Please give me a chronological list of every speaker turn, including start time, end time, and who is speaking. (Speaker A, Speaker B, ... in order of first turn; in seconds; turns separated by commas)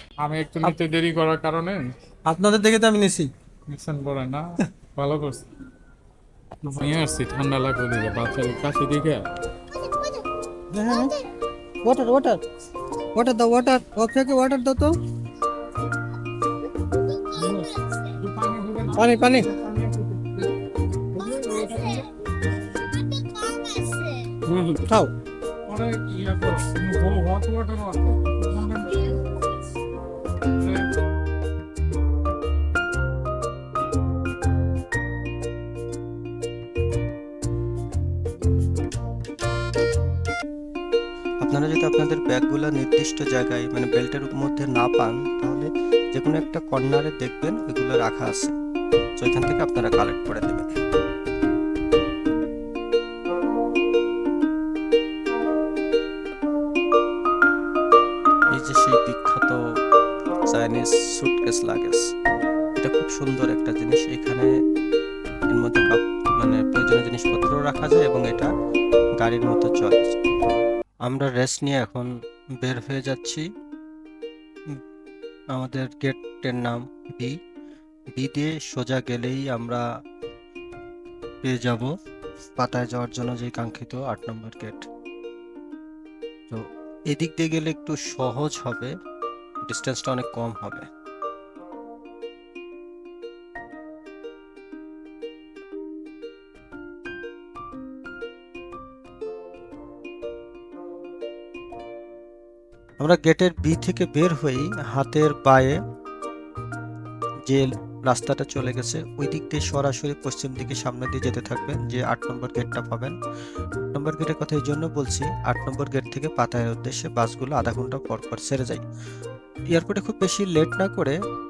Speaker A: 0.2-1.9, Speaker B: 2.3-3.3, Speaker A: 3.7-4.4, Speaker A: 5.0-5.4, Speaker A: 6.7-9.2, Speaker B: 10.7-11.1, Speaker B: 11.8-12.4, Speaker B: 13.1-14.9, Speaker B: 17.4-17.6, Speaker A: 18.1-20.5, Speaker B: 19.0-19.5, Speaker A: 21.1-22.1, Speaker B: 24.5-25.1, Speaker A: 25.7-29.1, Speaker A: 30.6-30.9, Speaker C: 41.4-48.5, Speaker C: 49.2-50.8, Speaker C: 58.5-59.6, Speaker C: 60.5-62.1, Speaker C: 62.8-64.5, Speaker C: 65.5-68.5, Speaker C: 69.2-70.2, Speaker C: 71.0-73.5, Speaker C: 75.5-77.4, Speaker C: 78.1-79.8, Speaker C: 81.4-81.9, Speaker C: 82.6-84.9, Speaker C: 86.5-89.0, Speaker C: 89.7-90.9, Speaker C: 103.0-105.8, Speaker C: 107.5-113.2, Speaker C: 113.9-118.8, Speaker C: 119.7-121.2